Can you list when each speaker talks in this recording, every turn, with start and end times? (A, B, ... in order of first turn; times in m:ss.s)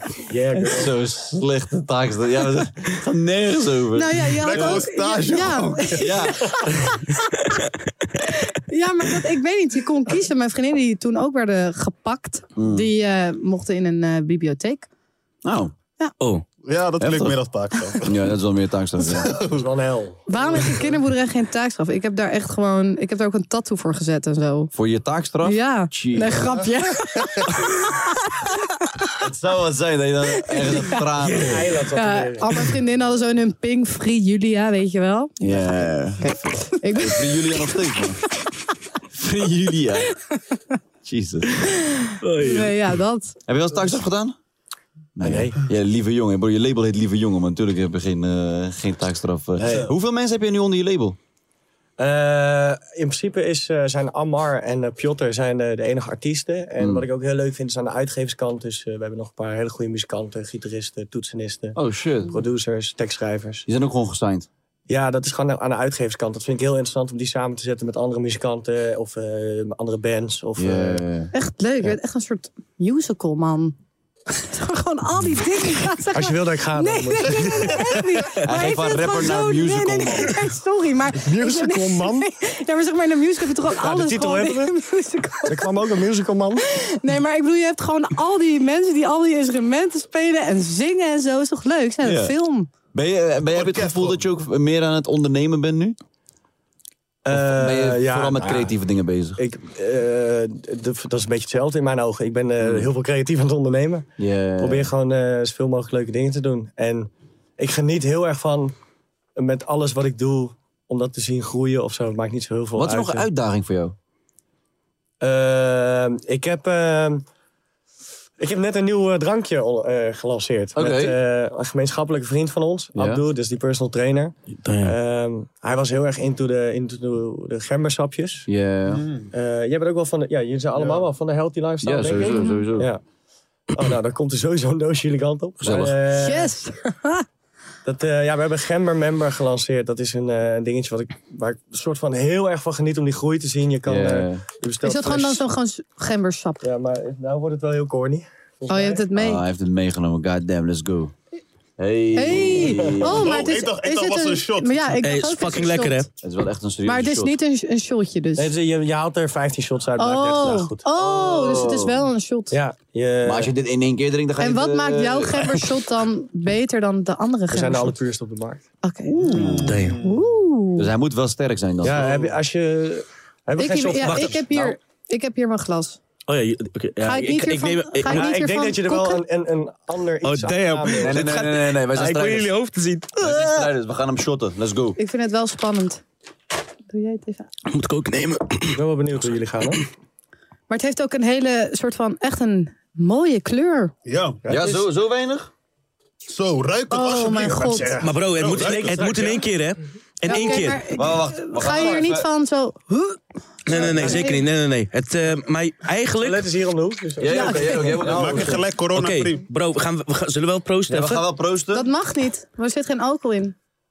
0:00.2-0:01.0 A
0:00.6-0:04.8 B
0:03.9-0:07.5 C
0:04.4-0:06.3 D
0:06.0-0:06.6 B
0:08.2-0:14.9 C
0:12.6-0:12.9 B
0:15.4-0:15.7 B
0:16.2-0:16.4 E
0:16.6-0:18.2 D
0:17.0-0:17.4 B
0:18.0-0:19.4 B
0:19.0-0:19.7 D
0:19.4-0:21.0 A
0:20.3-0:24.7 C
0:24.7-0:26.6 B
0:25.4-0:29.1 C
0:27.2-0:27.4 D
0:29.2-0:31.7 B
0:30.3-0:31.0 C
0:31.2-0:32.6 A
0:31.9-0:35.4 C
0:35.4-0:38.2 B
0:36.2-0:37.8 C
0:39.1-0:40.1 B
0:41.0-0:41.6 B
0:41.7-0:43.4 C
0:42.2-0:42.8 E
0:43.5-0:44.4 B
0:45.2-0:51.2 B
0:45.2-0:45.6 A
0:49.6-0:49.9 A
0:52.0-1:03.6 A
0:56.8-0:57.0 B
1:01.7-1:02.4 B
1:03.7-1:04.5 B
1:04.9-1:11.0 A
1:10.6-1:11.3 B
1:11.3-1:13.7 C
1:14.3-1:25.8 C
1:16.1-1:17.8 A
1:18.4-1:20.4 B
1:21.2-1:22.2 A
1:23.8-1:24.7 A
1:25.4-1:26.6 A
1:26.6-1:32.7 C
1:32.0-1:32.3 B
1:32.9-1:36.0 B
1:33.5-1:34.2 D
1:37.2-1:38.7 A
1:37.3-1:39.4 B
1:39.4-1:48.7 A
1:42.6-1:42.9 B
1:44.2-1:44.9 B
1:49.4-1:53.3 A
1:52.8-1:54.0 B
1:55.2-1:57.2 A
1:58.4-2:08.5 A
2:00.7-2:01.2 B
2:03.0-2:03.2 B
2:04.6-2:05.0 E
2:08.5-2:09.0 B
2:08.9-2:09.3 D
2:09.3-2:13.0 A
2:10.7-2:11.1 D
2:11.8-2:12.9 B
2:12.3-2:12.7 C
2:13.7-2:16.5 A
2:15.6-2:16.0 B
2:16.2-2:17.2 C
2:17.8-2:25.4 A
2:23.8-2:24.4 B
2:24.8-2:26.6 C
2:26.6-2:29.1 A
2:28.7-2:29.4 C
2:29.1-2:31.1 B
2:31.8-2:33.4 B
2:32.1-2:36.1 C
2:32.4-2:33.3 A
2:33.1-2:35.0 D
2:35.0-2:36.1 E
2:36.2-2:37.4 B
2:36.8-2:38.5 C
2:38.4-2:41.6 A
2:40.0-2:42.6 C
2:41.0-2:42.0 B
2:42.5-2:43.5 A
2:43.2-2:45.6 B
2:44.4-2:48.0 C
2:47.5-2:48.6 A
2:48.8-2:50.9 C
2:49.1-2:50.3 D
2:49.2-2:49.8 B
2:49.6-2:50.0 E
2:50.8-2:52.3 B
2:51.8-2:54.8 A
2:53.6-2:56.0 C
2:56.3-2:58.3 E
2:57.0-2:59.2 C
2:58.1-3:01.4 A
3:00.2-3:03.5 E
3:00.9-3:02.5 B
3:03.2-3:05.0 B
3:05.0-3:06.0 C
3:06.9-3:07.5 C
3:07.7-3:08.8 E
3:08.7-3:09.8 A
3:10.7-3:13.9 C
3:14.0-3:14.5 D
3:14.5-3:15.5 B
3:16.3-3:19.4 D
3:16.9-3:18.0 C
3:18.0-3:20.8 E
3:18.6-3:19.4 A
3:20.2-3:24.4 C
3:20.9-3:22.3 B
3:23.6-3:26.5 E
3:23.7-3:24.3 A
3:26.2-3:28.6 A
3:27.2-3:28.6 B
3:27.3-3:28.0 C
3:28.1-3:29.4 D
3:28.9-3:31.2 E
3:30.9-3:31.9 B
3:31.7-3:33.5 C